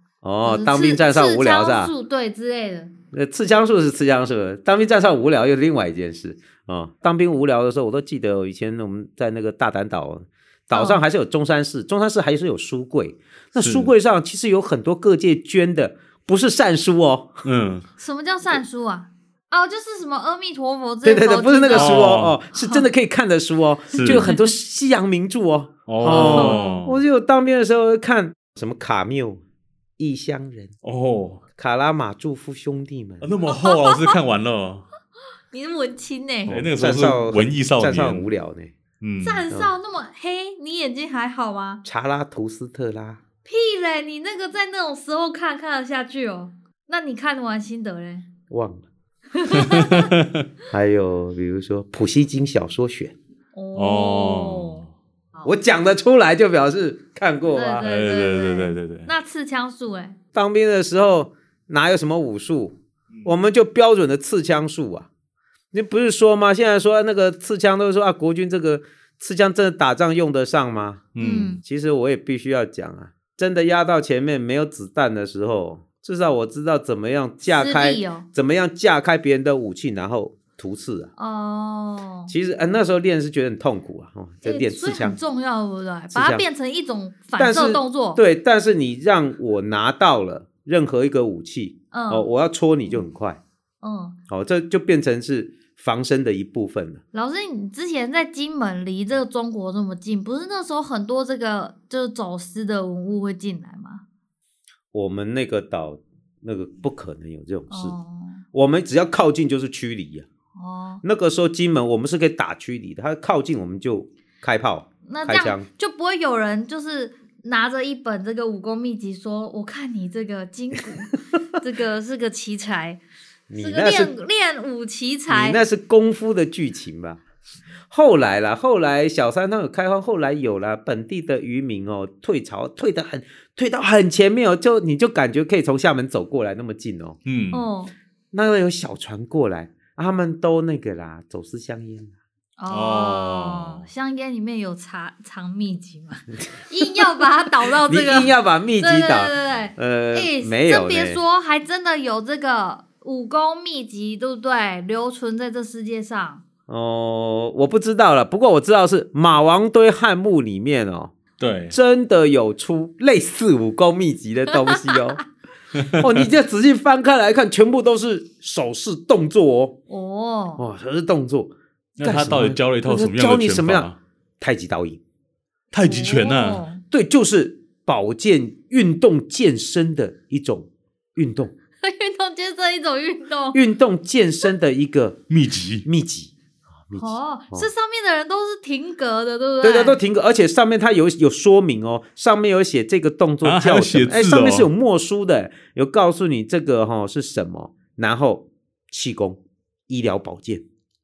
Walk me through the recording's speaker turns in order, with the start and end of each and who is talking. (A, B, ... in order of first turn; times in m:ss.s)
0:00.2-0:01.9 A
0:00.4-0:02.9 B
0:03.1-0:17.4 A
0:10.7-0:11.0 B
0:13.6-0:13.9 C
0:17.4-0:17.9 C
0:18.0-0:22.9 B
0:21.0-0:29.4 A
0:21.7-0:22.4 C
0:23.9-0:24.3 C
0:24.2-0:24.4 B
0:25.9-0:27.0 C
0:26.0-0:26.8 B
0:30.0-0:30.7 A
0:30.8-0:31.4 C
0:31.6-0:33.3 A
0:33.2-0:34.9 C
0:33.5-0:34.2 B
0:35.5-0:36.6 B
0:36.5-0:38.3 C
0:36.5-0:38.7 A
0:39.0-0:39.4 C
0:39.2-0:41.8 B
0:41.8-0:43.2 A
0:43.5-0:48.3 B
0:48.5-0:48.8 A
0:49.4-0:50.1 B
0:50.7-0:53.2 A
0:53.5-0:55.5 B
0:53.8-0:54.9 C
0:55.4-0:57.8 A
0:57.5-1:00.2 B
0:57.8-0:59.1 C
1:00.4-1:05.1 A
1:05.7-1:11.1 A
1:11.2-1:11.6 C
1:11.2-1:11.6 B
1:11.6-1:21.1 A
1:17.4-1:18.3 B
1:21.2-1:22.3 B
1:22.3-1:25.2 A
1:24.4-1:28.2 B
1:26.1-1:26.5 A
1:27.4-1:33.4 A
1:31.9-1:32.3 B
1:33.8-1:34.2 B
1:34.3-1:37.0 A
1:37.1-1:44.0 B
1:44.9-1:48.0 A
1:47.7-1:48.4 B
1:48.5-1:50.3 A
1:50.6-1:51.0 B
1:51.0-1:55.7 A
1:55.1-2:03.0 B
2:03.5-2:04.1 A
2:03.6-2:05.6 B
2:05.3-2:07.2 A
2:07.9-2:17.2 A
2:17.2-2:17.7 C
2:17.5-2:17.9 B
2:18.3-2:22.1 A
2:22.6-2:36.4 B
2:22.7-2:23.9 C
2:27.9-2:31.2 A
2:36.7-2:41.2 A
2:41.4-2:41.8 C
2:41.7-2:45.2 A
2:44.6-2:45.2 B
2:45.7-2:46.3 C
2:45.9-2:49.8 A
2:49.9-2:50.6 B
2:50.6-2:55.0 A
2:52.0-2:54.0 C
2:55.7-2:56.6 C
2:55.8-2:56.8 B
2:56.9-3:01.5 A
3:01.8-3:03.6 B
3:03.5-3:05.2 A
3:05.3-3:05.9 C
3:05.8-3:06.3 A
3:06.9-3:07.7 A
3:07.0-3:10.0 B
3:09.6-3:20.6 A
3:13.4-3:14.7 C